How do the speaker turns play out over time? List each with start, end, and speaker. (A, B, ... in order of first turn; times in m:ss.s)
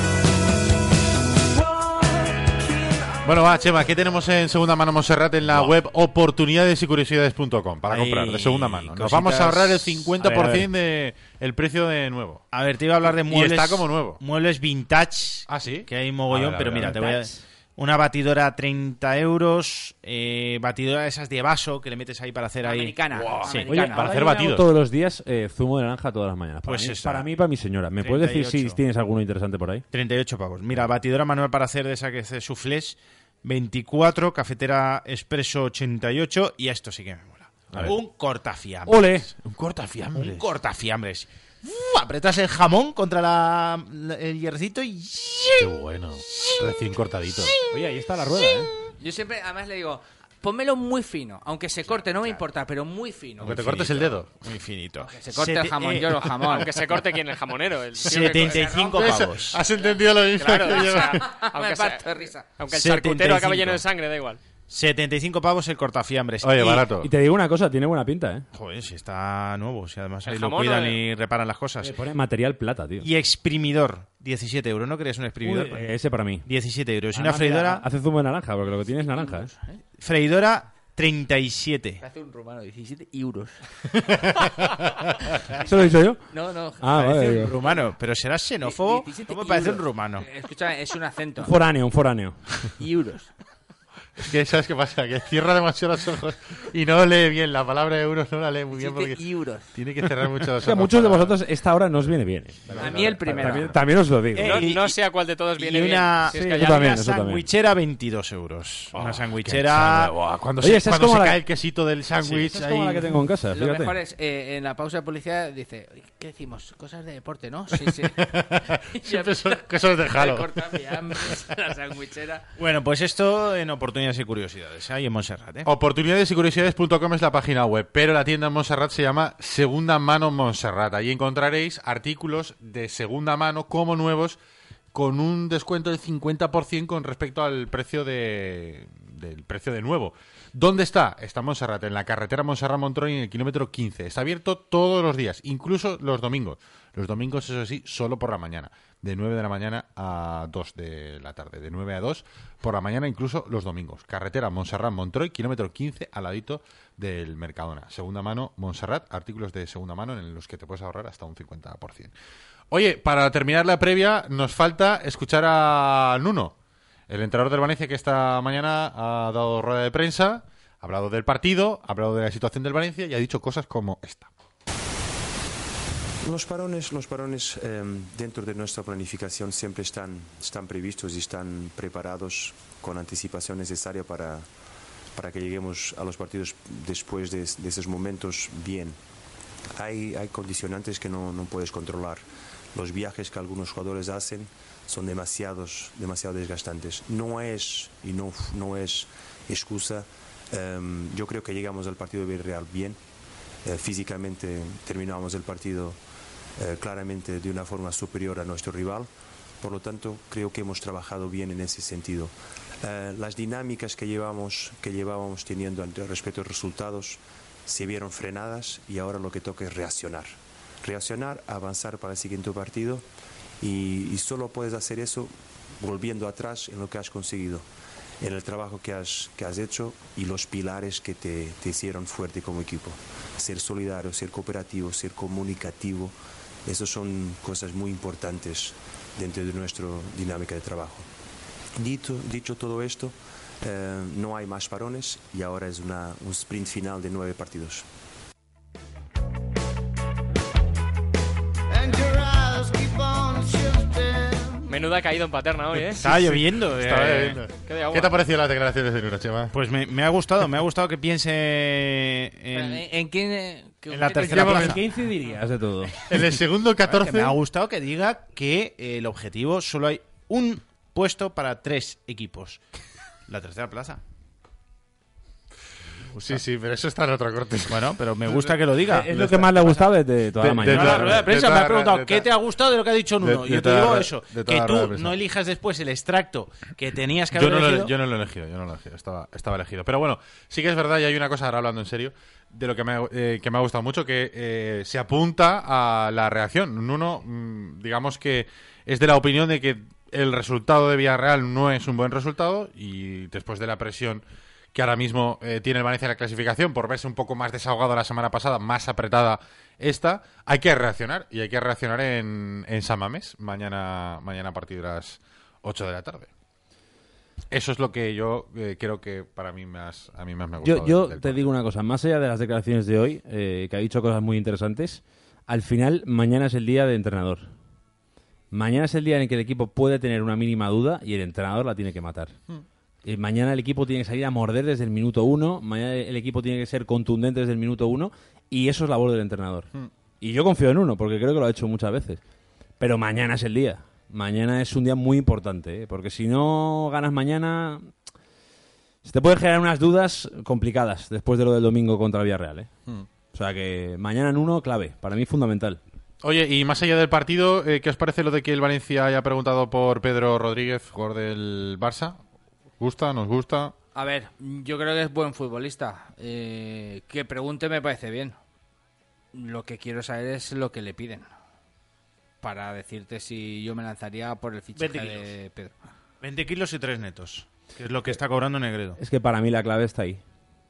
0:01.5-0:04.0 A
0:03.2-0:12.4 B
0:05.5-0:05.8 C
0:07.9-0:10.7 C
0:12.5-0:23.7 C
0:13.2-0:14.2 B
0:15.5-0:17.0 B
0:16.7-0:17.4 D
0:22.6-0:24.1 E
0:23.3-0:24.7 B
0:23.7-0:29.8 D
0:26.6-0:27.3 C
0:28.0-0:28.8 C
0:29.9-0:39.3 C
0:38.9-0:39.3 D
0:39.4-0:40.4 B
0:40.2-0:45.8 C
0:45.6-0:47.6 B
0:46.3-0:46.6 C
0:47.7-0:48.7 D
0:49.0-0:53.7 E
0:52.0-0:52.4 C
0:53.4-0:54.3 B
0:53.5-0:56.8 C
0:55.0-0:56.7 E
0:56.5-0:58.7 F
0:58.0-0:59.6 C
0:58.1-1:02.5 E
0:58.9-1:01.3 B
1:00.4-1:04.4 F
1:02.7-1:03.8 C
1:04.7-1:06.9 C
1:06.4-1:07.1 B
1:07.0-1:08.5 D
1:08.5-1:12.0 C
1:10.2-1:11.0 F
1:11.8-1:13.1 D
1:13.0-1:15.9 C
1:15.4-1:16.5 D
1:16.5-1:17.8 C
1:17.2-1:19.5 D
1:19.0-1:19.8 E
1:20.0-1:22.0 C
1:22.0-1:23.6 E
1:23.9-1:25.3 B
1:25.5-1:27.8 E
1:25.6-1:26.2 D
1:26.8-1:27.6 D
1:27.0-1:30.3 C
1:28.6-1:31.5 E
1:31.4-1:32.4 D
1:32.8-1:33.3 E
1:34.2-1:41.4 B
1:38.7-1:39.7 E
1:40.6-1:44.6 D
1:42.7-1:43.6 B
1:42.8-1:43.8 E
1:44.4-1:45.0 C
1:44.4-1:47.0 F
1:45.6-1:50.1 C
1:46.3-1:47.4 D
1:48.9-1:53.1 B
1:50.6-1:51.4 D
1:52.4-1:54.0 D
1:53.5-2:02.5 E
1:57.8-2:01.3 B
2:02.6-2:05.7 C
2:05.6-2:14.4 B
2:14.9-2:42.1 B
2:42.7-2:46.5 B
2:47.1-2:54.3 B
2:56.2-3:04.5 G
3:05.1-3:09.0 G
3:09.8-3:23.0 G
3:23.6-3:26.0 G
3:26.6-3:29.1 G
3:29.6-3:43.1 G
3:43.6-3:47.7 G
3:48.2-4:01.1 G
4:01.8-4:07.8 G
4:11.8-4:12.8 A
4:14.7-4:16.0 F
4:15.9-4:19.5 B
4:16.0-4:17.4 C
4:17.6-4:18.2 F
4:19.5-4:22.9 C
4:22.5-4:24.7 E
4:23.9-4:24.9 C
4:24.3-4:25.9 D
4:26.1-4:27.4 B
4:26.8-4:32.6 C
4:33.3-4:34.0 C
4:36.2-4:38.6 B
4:37.7-4:39.4 C
4:38.9-4:41.2 D
4:39.1-4:39.5 B
4:40.4-4:42.3 B
4:40.7-4:47.9 C
4:43.2-4:45.1 B
4:47.3-5:04.2 B
5:04.7-5:16.3 B
5:17.5-5:21.5 B
5:20.6-5:27.5 D
5:28.5-5:32.4 D
5:33.0-5:39.7 D
5:40.2-5:42.2 D
5:42.8-5:47.9 D
5:49.0-5:52.7 D
5:53.3-5:55.8 D
5:56.2-6:02.2 B
6:02.8-6:03.7 B
6:04.0-6:08.4 E
6:09.3-6:11.3 E
6:12.4-6:15.9 E
6:14.8-6:15.3 C
6:16.2-6:19.0 C
6:19.0-6:20.2 D